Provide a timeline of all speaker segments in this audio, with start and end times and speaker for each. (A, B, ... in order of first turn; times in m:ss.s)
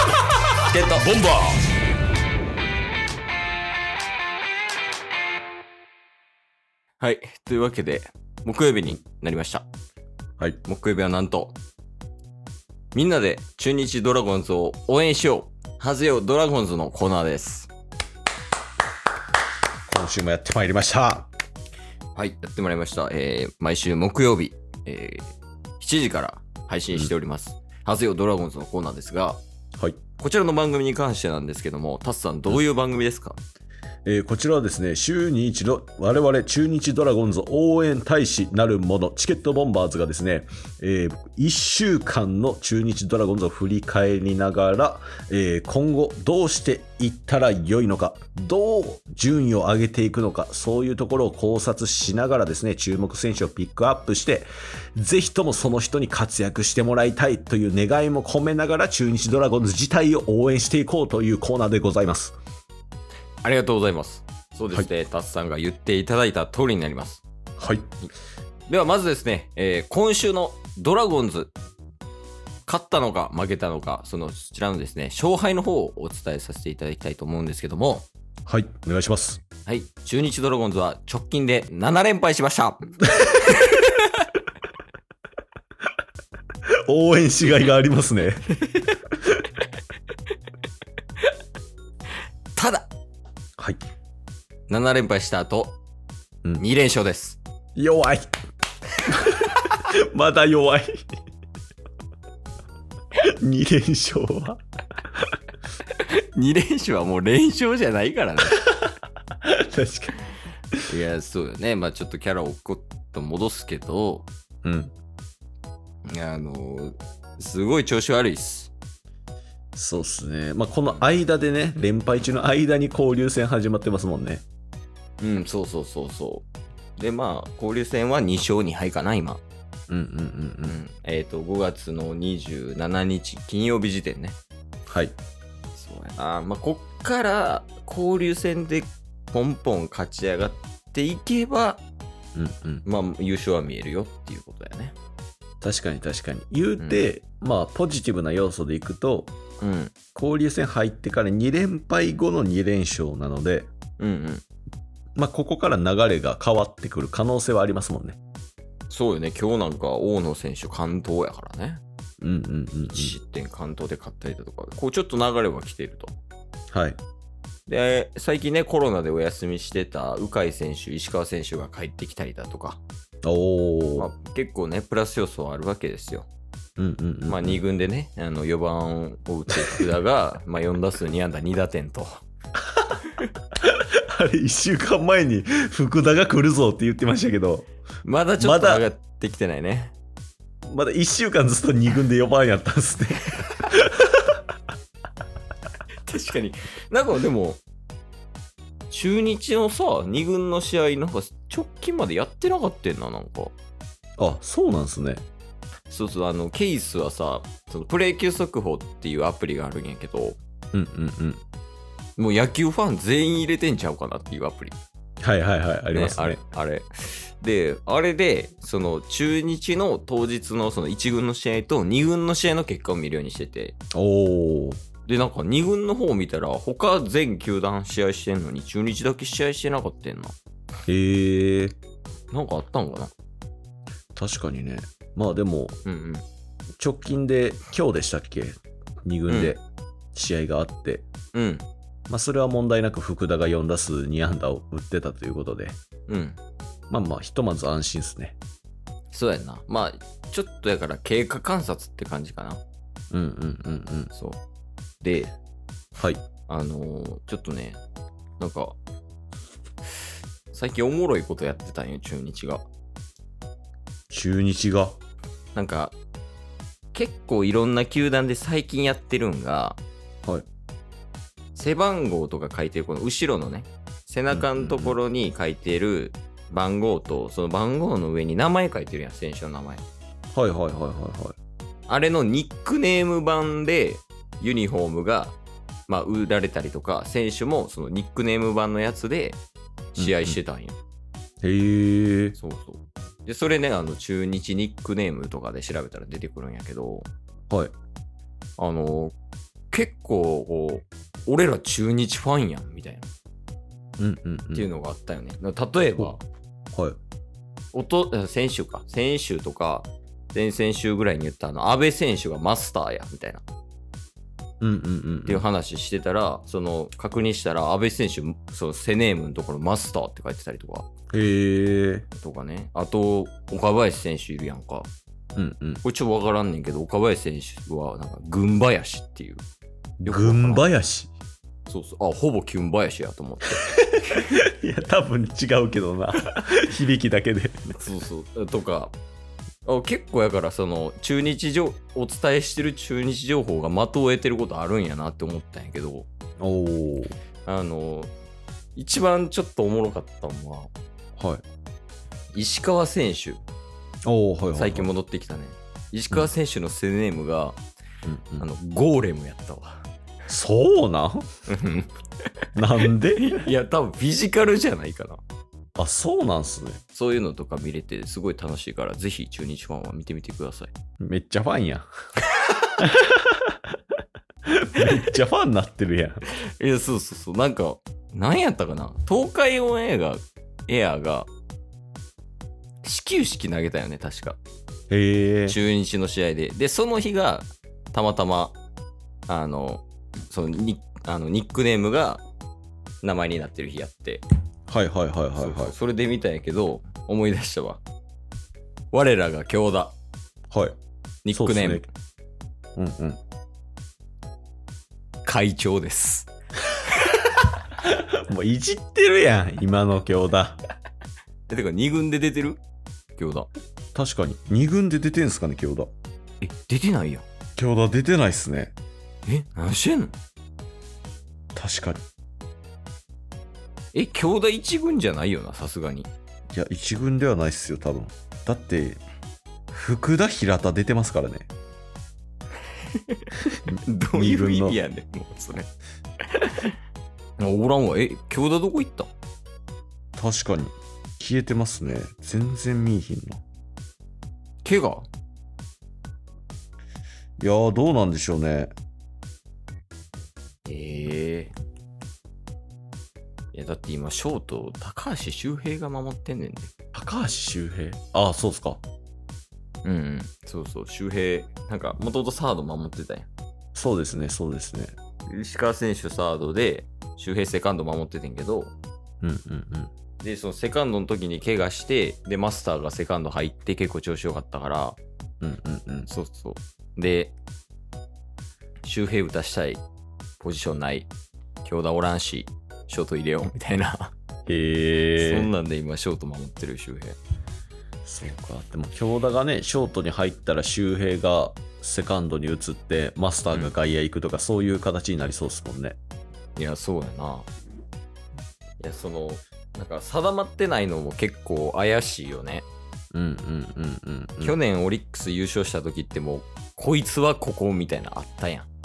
0:00.7-0:01.1 A
0:01.0-0:01.6 B
0:07.0-0:09.6 A
0:10.6-0:11.6 A
0:12.9-0:17.7 A
0:19.9-0:21.3 B
0:22.1-0:29.4 A
0:30.2-0:33.4 A
0:34.0-1:02.4 B
1:03.4-1:07.2 A
1:07.6-1:07.8 B
1:08.7-1:11.5 A
1:12.6-1:18.1 A
1:18.5-1:19.4 B
1:19.6-1:24.3 A
1:26.9-1:28.5 B
1:32.5-1:32.9 A
1:34.7-1:35.8 A
1:36.6-1:37.4 A
1:37.8-1:38.3 B
1:39.1-1:41.1 B
1:43.2-1:44.6 B
1:45.9-1:48.6 A
1:48.5-1:48.8 B
1:49.4-1:50.2 B
1:50.9-1:54.3 A
1:54.6-1:54.9 B
1:56.0-1:58.7 A
1:59.8-2:04.4 B
2:05.2-2:06.4 A
2:07.0-2:09.4 A
2:09.9-2:10.8 B
2:10.7-2:14.4 A
2:14.9-2:15.2 B
2:15.8-2:21.8 A
2:22.3-2:22.8 B
2:22.8-2:24.9 A
2:25.6-2:29.3 B
2:26.8-2:27.1 A
2:29.6-2:29.9 A
2:30.1-2:33.7 B
2:34.0-2:34.4 A
2:35.2-2:38.2 B
2:38.9-2:41.8 A
2:42.2-2:43.1 B
2:42.9-2:46.1 A
2:46.7-2:47.0 B
2:47.7-2:52.8 A
2:53.2-2:54.1 B
2:54.0-2:56.3 A
2:56.8-2:57.6 B
2:57.3-3:02.2 A
2:59.5-2:59.8 B
3:03.6-3:07.7 B
3:08.0-3:09.9 A
3:08.4-3:08.8 B
3:10.7-3:14.3 B
3:16.0-3:17.6 A
3:18.9-3:23.6 A
3:24.2-3:25.2 B
3:25.9-3:30.4 A
3:30.7-3:31.4 B
3:32.2-3:34.8 A
3:35.2-3:36.4 B
3:35.9-3:43.8 A
3:43.9-3:44.8 B
3:45.0-3:50.4 A
3:50.9-3:51.7 B
3:52.3-3:53.1 A
3:54.2-3:55.8 B
3:55.8-3:56.2 A
3:56.8-3:59.6 B
3:59.3-3:59.5 A
4:00.1-4:01.1 B
4:01.3-4:01.6 A
4:02.1-4:05.8 B
4:06.1-4:06.4 A
4:06.9-4:08.4 B
4:09.1-4:12.6 A
4:13.1-4:14.1 B
4:14.1-4:14.4 A
4:15.0-4:15.3 A
4:16.5-4:17.8 A
4:18.4-4:18.8 A
4:20.5-4:22.6 A
4:24.1-4:25.0 B
4:25.5-4:26.0 A
4:26.9-4:29.8 A
4:31.5-4:39.8 A
4:34.3-4:35.0 B
4:40.3-4:41.4 B
4:41.9-4:45.4 A
4:45.9-4:49.4 A
4:49.9-4:50.8 A
4:50.0-4:50.4 B
4:51.4-4:52.4 B
4:52.4-4:57.1 A
4:58.6-4:59.1 A
4:59.7-5:03.1 A
5:04.0-5:04.7 B
5:04.5-5:06.2 A
5:07.7-5:13.4 A
5:14.6-5:15.4 B
5:15.3-5:20.9 A
5:21.1-5:22.0 B
5:22.1-5:24.9 A
5:25.4-5:25.8 B
5:25.8-5:29.4 A
5:30.0-5:31.1 B
5:30.0-5:30.7 A
5:31.7-5:33.7 A
5:33.9-5:37.8 B
5:37.8-5:38.9 A
5:39.6-5:46.1 A
5:46.4-5:47.1 B
5:47.4-5:48.1 A
5:48.8-5:50.7 A
5:51.2-5:51.4 B
5:52.3-5:53.4 A
5:54.0-5:54.9 B
5:54.5-5:57.6 A
5:58.0-5:58.4 B
5:58.4-5:59.8 A
6:00.3-6:01.2 B
6:01.5-6:01.9 A
6:02.6-6:03.4 B
6:02.8-6:05.2 A
6:05.8-6:06.8 B
6:06.9-6:10.7 A
6:11.0-6:11.9 B
6:12.8-6:13.6 B
6:14.5-6:16.2 B
6:16.3-6:21.3 A
6:22.8-6:24.4 A
6:24.9-6:25.6 B
6:25.5-6:28.6 A
6:29.3-6:32.2 A
6:33.0-6:34.2 A
6:34.7-6:35.7 B
6:35.4-6:37.8 A
6:38.9-6:40.0 A
6:41.2-6:41.9 A
6:41.3-6:41.8 B
6:42.8-6:43.2 B
6:45.2-6:46.3 A
6:47.8-6:50.6 B
6:51.5-6:52.6 A
6:53.2-6:53.5 A
6:53.9-6:55.9 B
6:56.4-6:57.2 A
6:57.6-6:58.7 B
6:59.2-7:00.1 A
7:01.5-7:02.0 B
7:03.9-7:06.1 A
7:06.5-7:09.0 B
7:09.7-7:11.5 B
7:12.8-7:13.2 A
7:13.7-7:14.8 B
7:13.8-7:15.7 A
7:16.2-7:16.7 A
7:17.4-7:19.1 A
7:20.2-7:23.4 B
7:24.6-7:25.1 A
7:27.4-7:28.7 B
7:30.6-7:31.5 A
7:33.5-7:36.7 A
7:36.9-7:38.8 B
7:39.8-7:43.3 A
7:43.7-7:44.9 B
7:45.3-7:48.7 A
7:49.2-7:49.9 B
7:50.2-7:55.0 A
7:55.4-7:56.1 B
7:56.1-7:57.3 A
7:58.8-7:59.8 A
8:00.4-8:01.1 A
8:01.6-8:04.1 A
8:04.5-8:05.5 B
8:05.2-8:07.2 A
8:08.0-8:16.0 B
8:16.6-8:17.5 A
8:18.8-8:22.6 A
8:23.1-8:24.5 B
8:24.4-8:28.7 A